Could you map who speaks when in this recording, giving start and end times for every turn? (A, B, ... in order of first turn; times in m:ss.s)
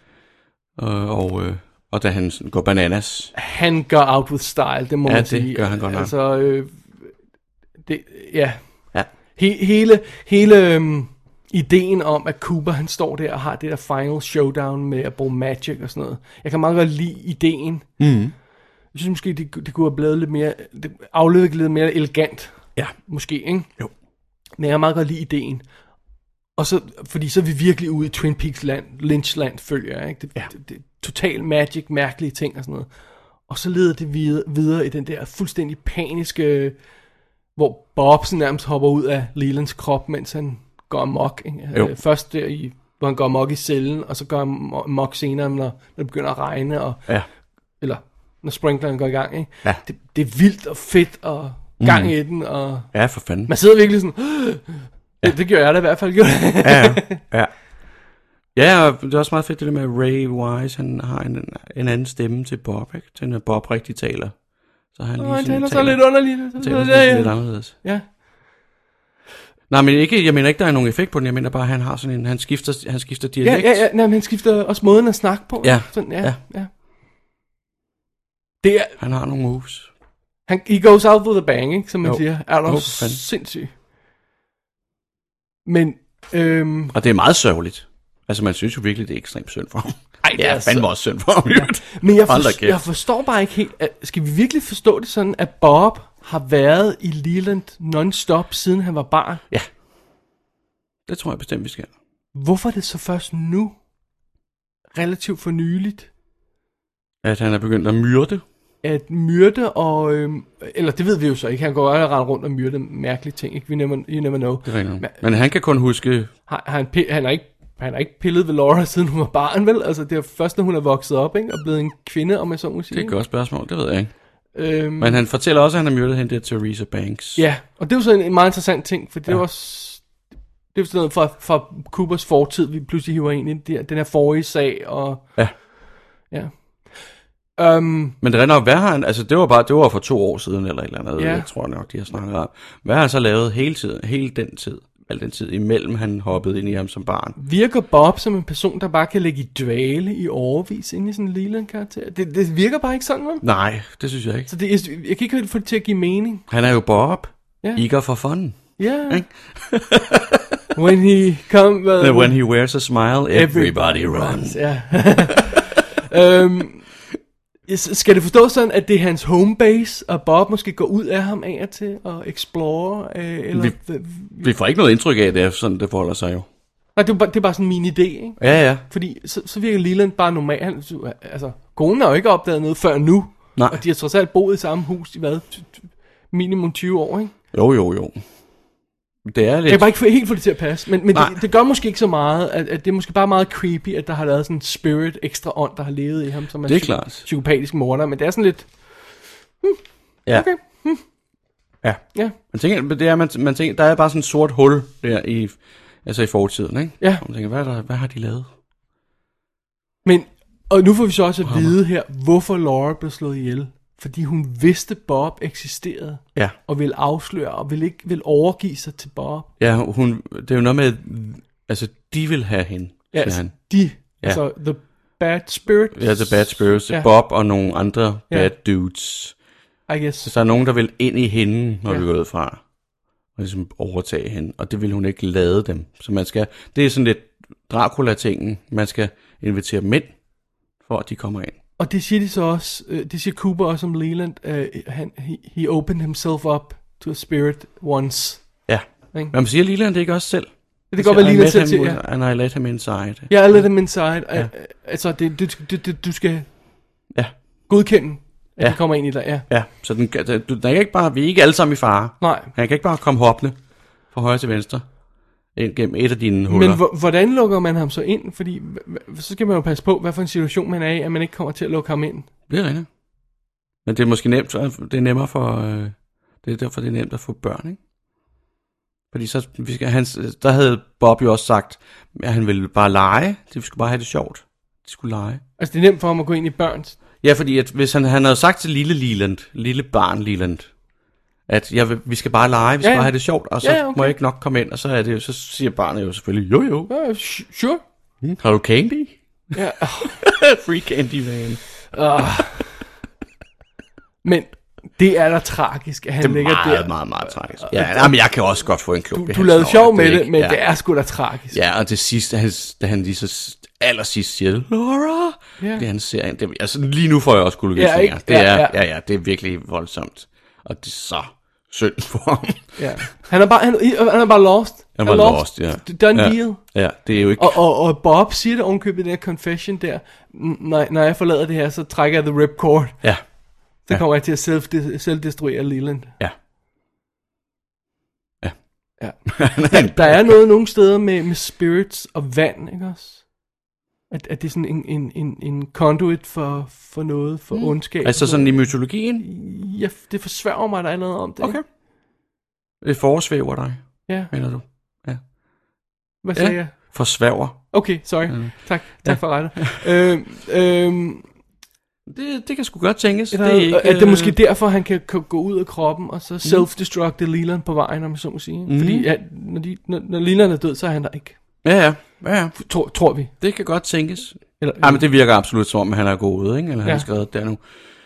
0:00.8-0:03.3 A
0:03.4-0:07.0 B
0:05.0-0:06.1 A
0:07.9-0:08.7 B
0:09.4-0:17.9 B
0:18.0-0:18.3 A
0:18.9-0:23.7 B
0:24.6-0:25.6 B
0:26.6-0:32.9 B
0:33.5-0:36.8 B
0:37.6-0:47.1 B
0:47.8-0:52.9 B
0:51.8-0:52.2 A
0:52.9-0:53.5 A
0:53.5-0:57.2 B
0:56.6-0:57.6 A
0:58.6-1:04.4 A
1:04.9-1:07.7 A
1:05.2-1:08.1 B
1:09.7-1:13.9 A
1:13.4-1:16.7 B
1:15.6-1:16.4 A
1:18.6-1:19.0 B
1:19.0-1:19.9 A
1:20.5-1:23.7 B
1:22.0-1:23.2 A
1:25.7-1:27.0 B
1:26.9-1:32.8 A
1:30.2-1:39.4 B
1:41.1-1:41.9 A
1:42.4-1:43.8 B
1:45.0-1:46.1 B
1:47.2-1:48.4 A
1:48.8-1:55.2 B
1:54.6-1:56.3 A
1:56.5-2:03.2 B
2:02.9-2:04.1 A
2:04.5-2:05.2 B
2:05.0-2:07.4 A
2:07.4-2:10.2 B
2:10.7-2:15.7 B
2:16.3-2:16.9 B
2:17.6-2:18.2 B
2:18.2-2:27.4 A
2:21.2-2:21.5 B
2:27.4-2:33.4 B
2:33.4-2:34.5 A
2:34.5-2:36.4 B
2:36.5-2:40.6 A
2:38.8-2:39.2 B
2:40.8-2:42.4 B
2:42.0-2:45.5 A
2:43.3-2:46.9 B
2:47.7-2:54.5 B
2:53.5-2:56.5 A
2:57.0-3:07.3 B
2:58.4-2:58.8 A
3:07.5-3:08.2 A
3:09.2-3:10.0 A
3:09.7-3:19.0 B
3:16.7-3:17.3 A
3:19.6-3:21.0 B
3:21.8-3:28.5 A
3:30.0-3:39.5 B
3:31.4-3:31.8 A
3:39.6-3:44.4 A
3:43.1-3:47.1 B
3:45.9-3:49.4 A
3:49.9-3:50.3 B
3:50.2-3:52.6 A
3:53.4-4:00.2 A
4:00.8-4:01.6 A
4:01.8-4:09.4 B
4:08.7-4:14.5 A
4:10.9-4:12.0 B
4:13.3-4:16.5 B
4:17.7-4:19.5 B
4:18.6-4:23.6 A
4:22.2-4:22.5 B
4:24.1-4:24.9 A
4:25.6-4:26.8 A
4:26.5-4:32.3 B
4:32.5-4:32.9 A
4:33.9-4:37.8 A
4:39.1-4:45.4 A
4:45.6-4:47.0 B
4:47.2-4:50.7 A
4:51.5-4:56.9 A
4:52.8-4:54.2 B
4:56.9-4:57.8 B
4:58.2-4:59.2 A
4:59.5-5:00.2 B
5:00.0-5:01.6 A
5:01.9-5:02.8 B
5:04.2-5:08.2 B
5:06.2-5:10.6 A
5:09.1-5:11.6 B
5:11.5-5:22.8 A
5:15.6-5:15.9 B
5:17.8-5:18.8 B
5:22.8-5:26.8 B
5:25.0-5:27.6 A
5:27.4-5:33.0 B
5:33.8-5:36.1 B
5:39.0-5:43.3 B
5:39.3-5:40.4 A
5:44.1-5:51.6 B
5:47.5-5:49.3 A
5:52.8-5:55.2 A
5:54.1-5:54.3 B
5:56.2-5:57.0 B
5:56.4-5:59.8 A
5:57.7-6:01.3 B
6:02.1-6:04.4 A
6:03.3-6:11.4 B
6:08.7-6:09.1 A
6:11.6-6:12.6 A
6:12.6-6:13.3 B
6:13.3-6:17.6 A
6:14.6-6:15.0 B